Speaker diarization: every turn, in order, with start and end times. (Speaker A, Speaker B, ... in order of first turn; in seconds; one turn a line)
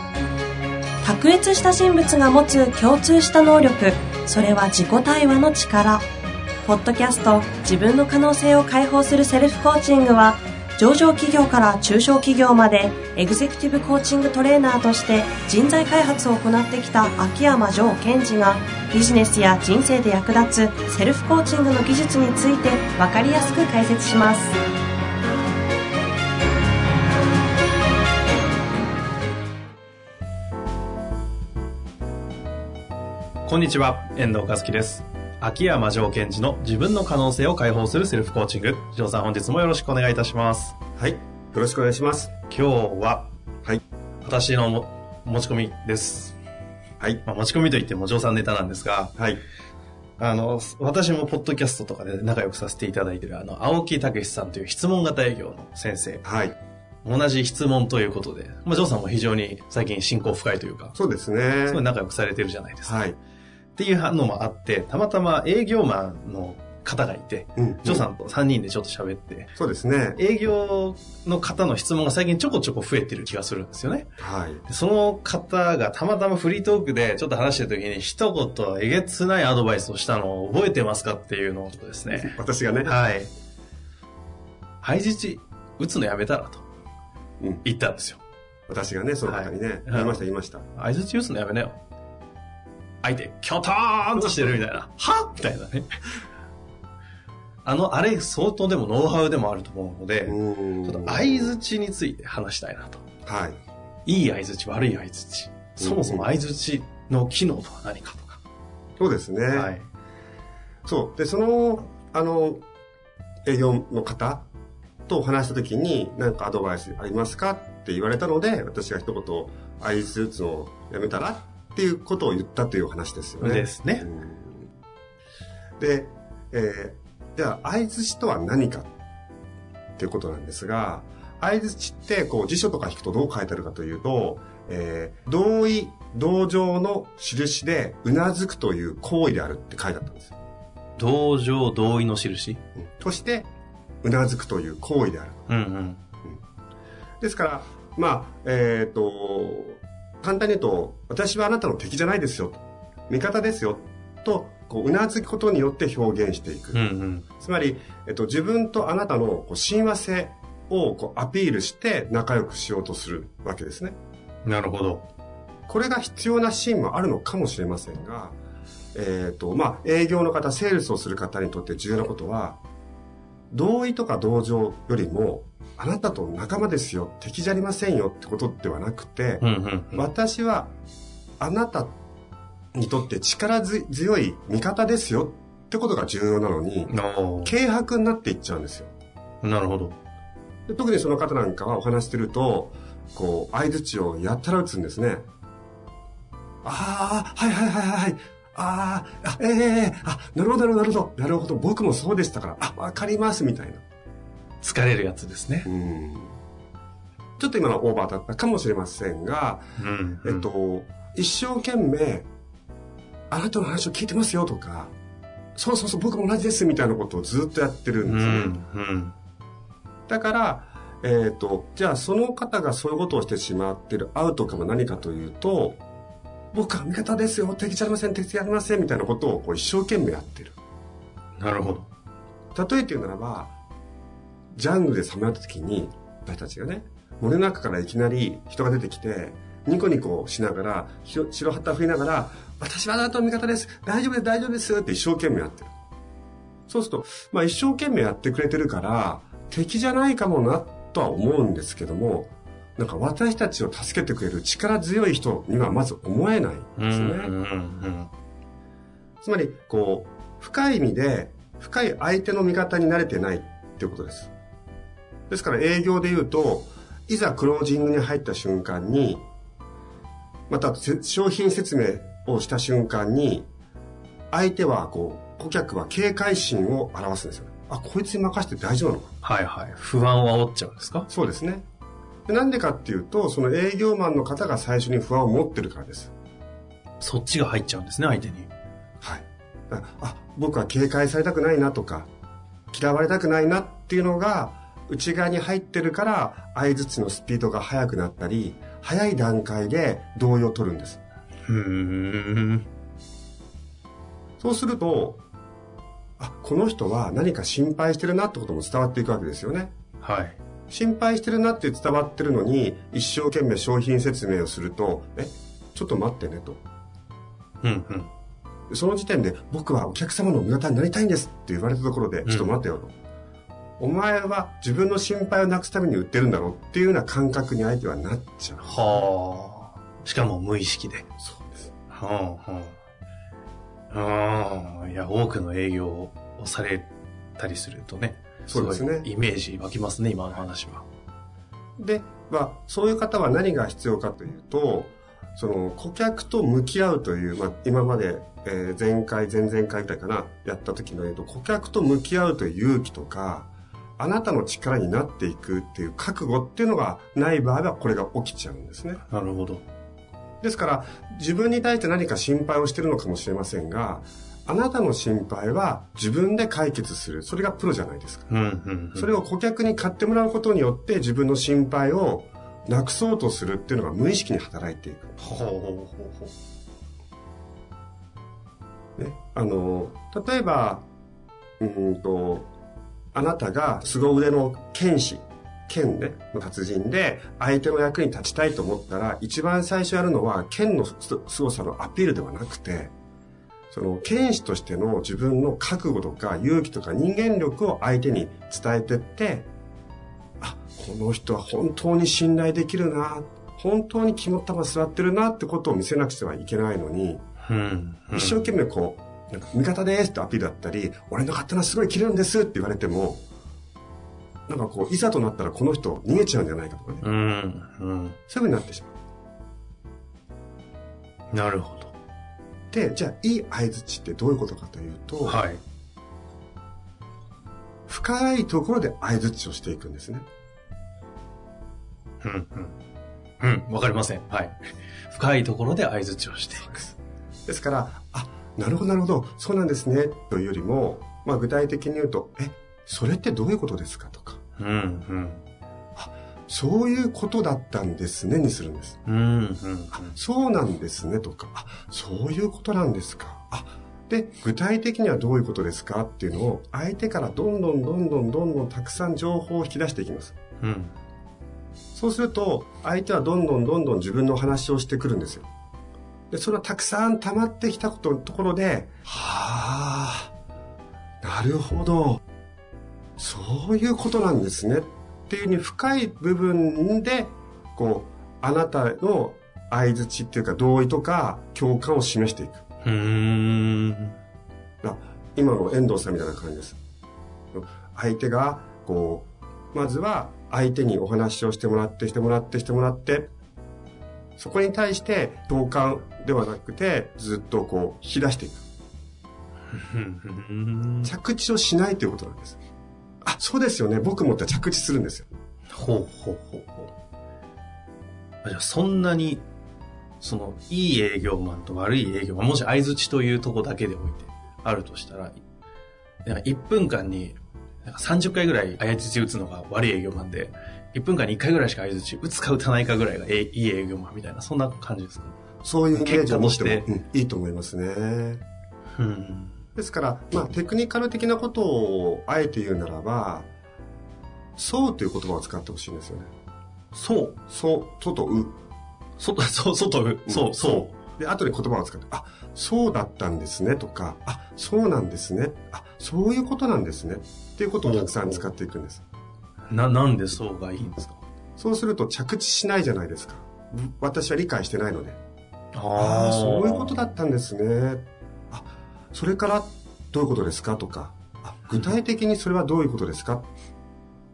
Speaker A: 1.0-6.0
Speaker A: 6.7-24.5
Speaker B: 33.5-40.8
Speaker C: 41.0-42.3
Speaker B: 42.5-43.3
Speaker B: 44.2-46.4
Speaker B: 47.2-49.2
Speaker B: 50.2-56.2
Speaker C: 56.2-56.5
Speaker B: 57.0-61.0
Speaker C: 61.0-61.8
Speaker B: 61.7-63.0
Speaker C: 62.9-63.2
Speaker B: 63.8-69.5
Speaker C: 67.5-68.1
Speaker C: 69.5-70.2
Speaker B: 70.1-74.1
Speaker C: 74.2-74.6
Speaker B: 74.7-82.3
Speaker C: 82.1-83.0
Speaker B: 82.8-83.3
Speaker B: 84.8-86.6
Speaker B: 87.6-88.2
Speaker C: 88.7-90.6
Speaker B: 89.2-91.8
Speaker B: 93.0-95.9
Speaker B: 97.6-103.0
Speaker C: 100.2-101.5
Speaker C: 103.2-103.6
Speaker B: 104.0-108.4
Speaker C: 105.8-106.3
Speaker C: 109.0-109.7
Speaker B: 109.5-109.9
Speaker C: 110.9-112.6
Speaker C: 113.5-114.4
Speaker C: 115.1-124.7
Speaker B: 123.4-124.1
Speaker C: 125.8-128.9
Speaker C: 130.0-140.3
Speaker B: 141.0-142.6
Speaker C: 142.8-143.5
Speaker C: 144.0-145.5
Speaker B: 145.5-146.0
Speaker C: 147.2-156.8
Speaker B: 156.7-157.2
Speaker C: 157.4-164.0
Speaker B: 164.4-165.1
Speaker C: 165.7-168.4
Speaker C: 168.9-172.6
Speaker C: 173.5-180.7
Speaker B: 179.4-180.1
Speaker C: 181.4-182.0
Speaker C: 182.8-186.9
Speaker B: 186.9-187.6
Speaker C: 187.4-188.9
Speaker B: 189.4-190.0
Speaker C: 190.7-195.2
Speaker C: 196.6-203.8
Speaker B: 204.6-205.7
Speaker C: 205.7-206.4
Speaker C: 207.4-209.7
Speaker B: 209.8-210.5
Speaker C: 210.2-212.3
Speaker C: 213.3-214.9
Speaker C: 215.6-218.5
Speaker B: 218.0-219.2
Speaker C: 220.1-225.8
Speaker C: 226.5-230.6
Speaker B: 231.4-231.9
Speaker C: 232.5-233.5
Speaker C: 234.5-245.7
Speaker C: 246.7-257.3
Speaker B: 256.8-258.1
Speaker C: 259.2-264.3
Speaker C: 265.3-269.2
Speaker C: 270.5-273.5
Speaker C: 274.3-279.1
Speaker B: 279.2-281.1
Speaker C: 281.1-281.6
Speaker C: 282.3-286.1
Speaker B: 287.0-288.5
Speaker C: 289.0-292.1
Speaker C: 292.7-301.0
Speaker B: 301.4-302.6
Speaker C: 304.4-305.2
Speaker C: 306.2-309.7
Speaker B: 310.0-310.4
Speaker C: 310.7-316.6
Speaker B: 317.6-318.1
Speaker C: 318.7-322.9
Speaker B: 322.2-322.5
Speaker C: 323.8-329.1
Speaker B: 328.6-331.1
Speaker C: 331.2-331.7
Speaker B: 331.9-332.8
Speaker B: 333.9-340.8
Speaker C: 338.5-339.1
Speaker C: 341.8-359.0
Speaker B: 359.1-359.6
Speaker C: 360.4-368.3
Speaker B: 368.3-369.1
Speaker C: 368.9-375.1
Speaker B: 375.2-376.3
Speaker C: 379.0-380.9
Speaker C: 381.6-382.5
Speaker C: 383.1-392.9
Speaker C: 393.7-399.5
Speaker C: 400.4-407.2
Speaker B: 407.4-408.6
Speaker C: 408.1-413.2
Speaker C: 414.5-417.1
Speaker B: 417.0-418.2
Speaker C: 418.3-418.9
Speaker B: 421.3-421.9
Speaker C: 422.7-425.4
Speaker B: 425.2-425.6
Speaker C: 427.9-430.2
Speaker B: 432.2-432.8
Speaker B: 433.4-436.7
Speaker C: 436.6-436.9
Speaker C: 437.5-444.4
Speaker B: 444.6-445.4
Speaker C: 445.9-449.0
Speaker B: 449.1-450.1
Speaker C: 449.9-460.3
Speaker B: 460.6-460.9
Speaker C: 461.9-465.5
Speaker C: 466.3-470.3
Speaker C: 471.2-472.2
Speaker C: 473.2-482.6
Speaker B: 482.8-484.1
Speaker C: 484.8-486.8
Speaker C: 487.5-493.3
Speaker C: 494.4-498.6
Speaker B: 499.7-501.1
Speaker C: 501.1-502.6
Speaker C: 503.2-505.3
Speaker B: 505.7-506.9
Speaker B: 508.4-509.4
Speaker B: 510.2-515.4
Speaker B: 516.2-525.4
Speaker C: 525.6-528.4
Speaker B: 525.9-526.9
Speaker B: 529.0-529.6
Speaker C: 529.8-533.5
Speaker C: 534.6-536.3
Speaker B: 536.9-537.4
Speaker C: 537.5-538.6
Speaker B: 539.2-541.0
Speaker C: 540.3-549.0
Speaker B: 547.9-548.5
Speaker B: 549.7-551.2
Speaker C: 551.6-555.2
Speaker B: 555.7-557.0
Speaker C: 556.0-563.5